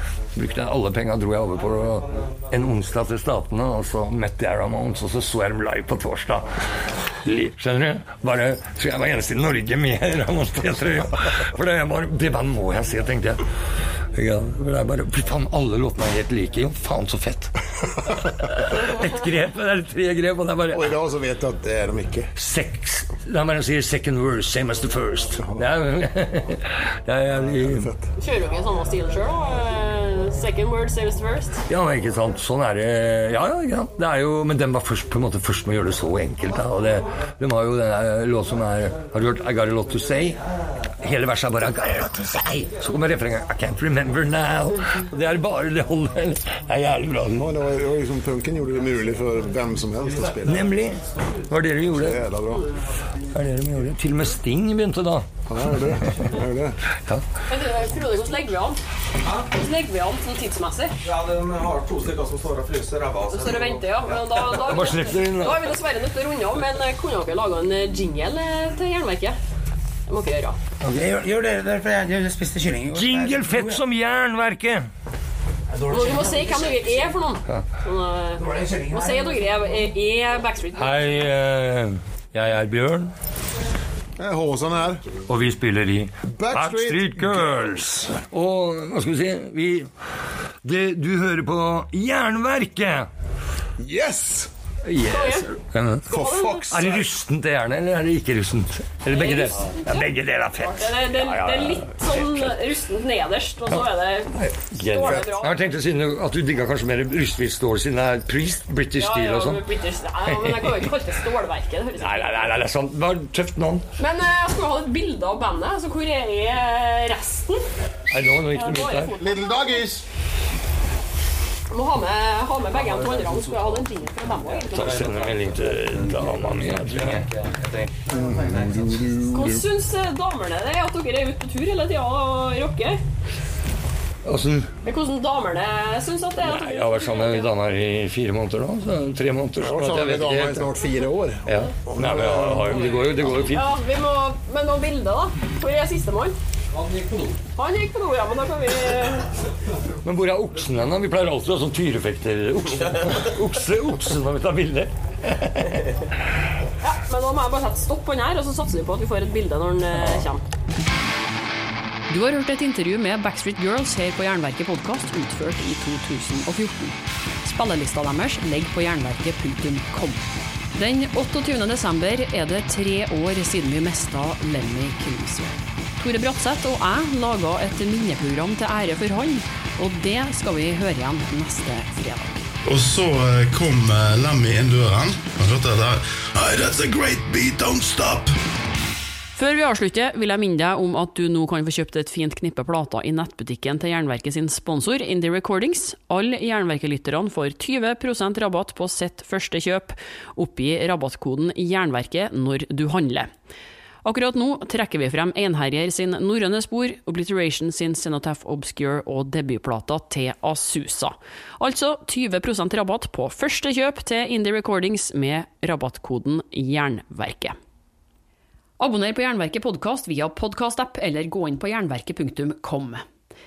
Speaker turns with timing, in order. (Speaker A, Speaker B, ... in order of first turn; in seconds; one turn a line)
Speaker A: 0.3-6.5
Speaker A: 7.2-13.4
Speaker A: 14.1-17.5
Speaker A: 18.2-21.0
Speaker B: 20.7-22.3
Speaker A: 22.4-27.9
Speaker B: 27.4-28.0
Speaker C: 28.2-31.6
Speaker A: 31.7-40.4
Speaker A: 41.0-47.5
Speaker B: 47.3-50.8
Speaker A: 50.4-52.2
Speaker B: 51.9-52.7
Speaker A: 53.3-55.2
Speaker B: 55.5-56.8
Speaker C: 57.5-58.8
Speaker C: 59.4-61.0
Speaker D: 61.0-63.7
Speaker C: 63.3-69.3
Speaker A: 64.5-65.6
Speaker C: 70.1-70.6
Speaker E: 70.8-73.8
Speaker A: 72.9-74.9
Speaker E: 75.7-77.2
Speaker C: 75.9-80.9
Speaker E: 78.3-79.7
Speaker A: 80.8-83.1
Speaker B: 84.2-85.0
Speaker A: 85.3-89.9
Speaker B: 86.3-88.1
Speaker A: 90.6-93.1
Speaker B: 93.8-94.5
Speaker A: 94.8-96.1
Speaker C: 95.1-95.5
Speaker C: 96.1-96.8
Speaker B: 96.1-97.0
Speaker A: 96.7-102.5
Speaker C: 99.1-105.5
Speaker A: 103.7-109.6
Speaker B: 105.0-105.3
Speaker C: 109.0-112.5
Speaker A: 110.2-110.9
Speaker A: 112.0-113.8
Speaker C: 114.0-117.6
Speaker A: 118.1-119.2
Speaker C: 118.4-119.9
Speaker B: 119.2-120.0
Speaker C: 121.7-125.0
Speaker A: 124.7-127.3
Speaker B: 128.1-129.6
Speaker C: 129.3-133.0
Speaker A: 134.2-134.7
Speaker C: 134.8-137.5
Speaker A: 136.4-140.7
Speaker B: 139.6-143.3
Speaker A: 141.4-143.7
Speaker C: 143.4-146.3
Speaker C: 147.6-149.3
Speaker A: 150.0-155.9
Speaker C: 156.8-160.4
Speaker A: 159.9-160.2
Speaker F: 162.1-170.2
Speaker F: 170.7-182.4
Speaker G: 182.7-188.3
Speaker F: 189.3-203.3
Speaker F: 204.0-217.6
Speaker F: 218.8-223.0